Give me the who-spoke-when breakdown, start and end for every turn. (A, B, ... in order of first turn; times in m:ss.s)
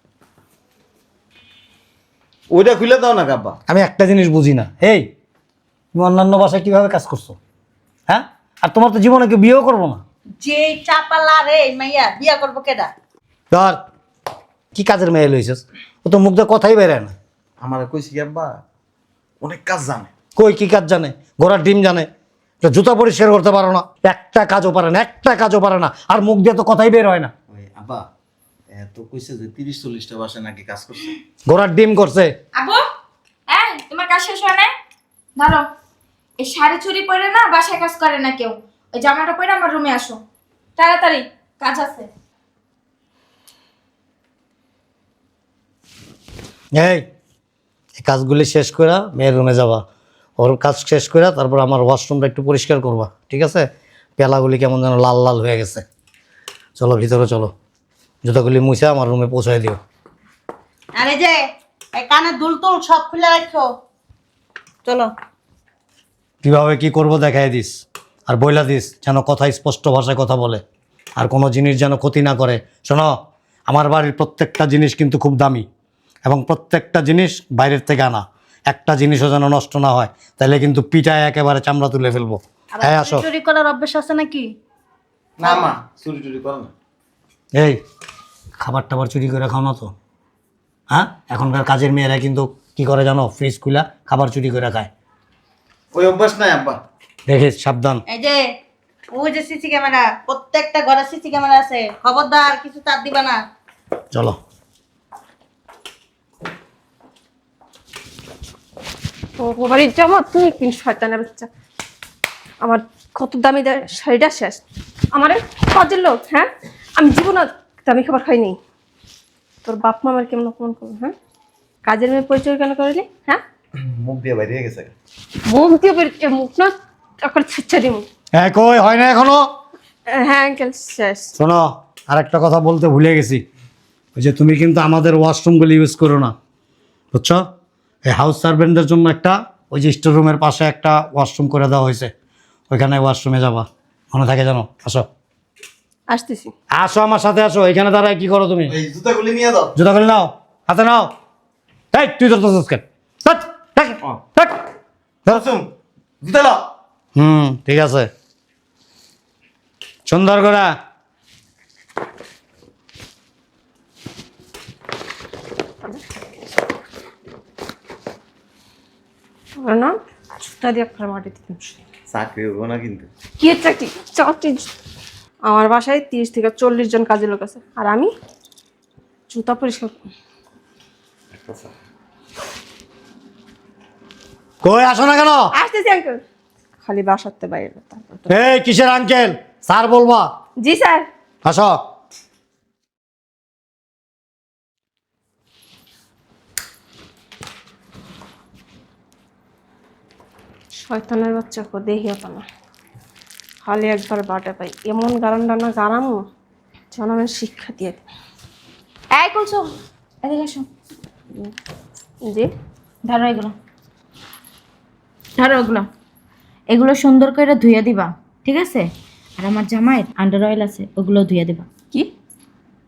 0:02.5-0:03.6 A
0:03.7-0:05.1 B
0:05.9-0:07.4 B
0:08.1-0:10.0 B
0:10.4-0:12.9 C
0:13.5-0:13.8 B
0:14.7-0:17.1 B
0:17.6-0:18.6 A
0:19.4-0:20.1 A
0:20.4-0:22.1 B
0:22.6-0:27.3 B
0:27.5-0:28.0 A
0:28.7-0:31.1 A
0:31.5-0:32.3 B
0:32.5-0:32.8 D
0:33.5-0:34.7 D
0:35.4-0:35.6 D
0:36.4-0:40.2 D
0:40.8-0:42.1 D
0:46.8-0:47.0 B
0:48.0-0:49.8 B
0:50.4-0:53.6 B
0:54.2-0:55.8 B
0:56.8-0:57.5 B
0:58.2-0:59.8 B
1:01.0-1:01.4 C
1:02.0-1:03.7 C
1:04.8-1:05.1 C
1:06.4-1:10.6 B
1:11.2-1:13.1 B
1:13.7-1:15.6 B
1:16.2-1:23.3 B
1:22.8-1:24.5 C
1:25.4-1:26.7 A
1:28.6-1:29.9 B
1:30.9-1:34.9 B
1:35.9-1:36.8 A
1:37.3-1:38.0 B
1:38.1-1:38.4 C
1:39.1-1:43.4 C
1:49.4-1:51.5 E
1:52.6-1:54.6 E
1:55.1-1:58.6 E
1:59.6-2:01.1 E
2:01.9-2:03.4 E
2:03.8-2:04.9 A
2:05.4-2:06.7 E
2:07.2-2:08.0 E
2:08.4-2:09.5 B
2:10.1-2:11.3 E
2:11.4-2:13.4 B
2:14.1-2:16.3 B
2:17.1-2:17.4 B
2:18.1-2:22.1 B
2:22.7-2:25.1 B
2:26.1-2:26.5 E
2:26.7-2:28.7 B
2:28.7-2:29.7 A
2:29.8-2:31.1 B
2:31.9-2:34.6 B
2:35.3-2:35.7 A
2:36.2-2:36.7 A
2:37.2-2:38.1 B
2:40.1-2:40.8 B
2:49.6-2:51.8 E
2:52.1-2:53.1 A
2:53.4-2:54.6 E
2:55.5-2:58.1 E
2:59.3-3:00.1 E
3:04.6-3:05.5 B
3:05.5-3:06.2 E
3:06.8-3:08.3 E
3:08.3-3:10.3 B
3:10.6-3:11.1 E
3:11.4-3:11.8 B
3:20.9-3:22.4 E
3:23.6-3:26.2 E
3:26.9-3:28.1 E
3:29.1-3:29.6 D
3:30.2-3:30.6 D
3:33.0-3:33.5 D
3:35.4-3:35.9 D
3:36.7-3:41.6 D